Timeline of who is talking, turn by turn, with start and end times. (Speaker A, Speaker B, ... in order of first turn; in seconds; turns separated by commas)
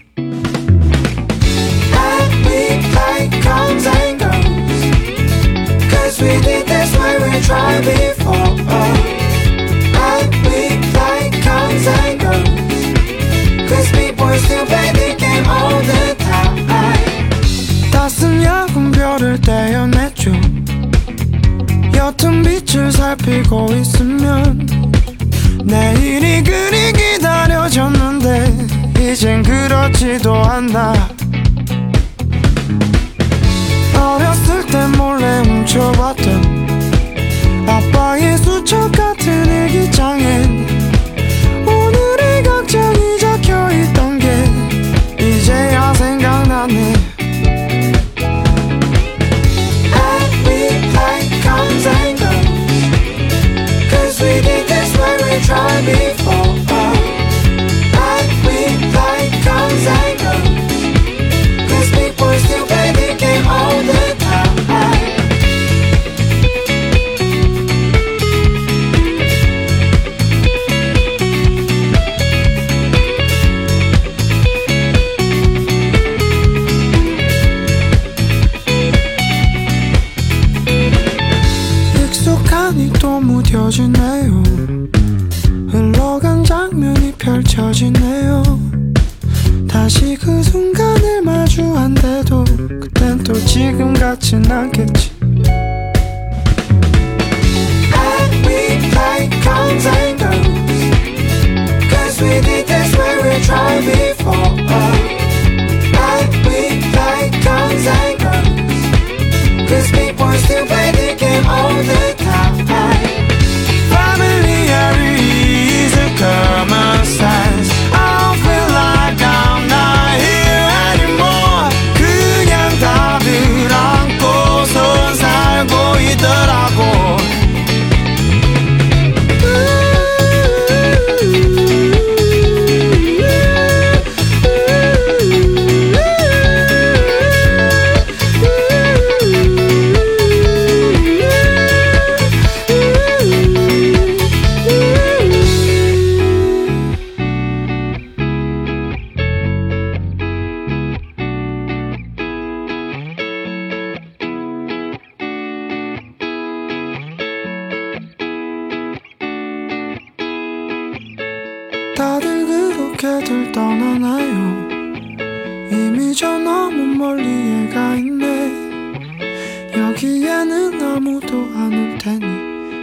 Speaker A: 1.9-4.9, Speaker A: 5.8-12.9, Speaker A: 13.6-17.3, Speaker A: 17.9-20.7, Speaker A: 21.9-24.9, Speaker A: 25.6-31.1, Speaker A: 33.9-36.8, Speaker A: 37.6-40.9, Speaker A: 41.6-47.1, Speaker A: 49.9-52.9, Speaker A: 53.9-57.4, Speaker A: 57.9-60.9, Speaker A: 61.6-65.4, Speaker A: 81.9-84.9, Speaker A: 85.7-88.7, Speaker A: 89.7-95.2, Speaker A: 97.9-100.9, Speaker A: 101.8-105.3, Speaker A: 105.9-108.9, Speaker A: 109.6-127.3, Speaker A: 129.4-131.2, Speaker A: 132.9-134.0, Speaker A: 134.6-135.9, Speaker A: 138.7-139.3, Speaker A: 143.2-143.6, Speaker A: 161.9-164.7, Speaker A: 165.7-168.7, Speaker A: 169.7-172.5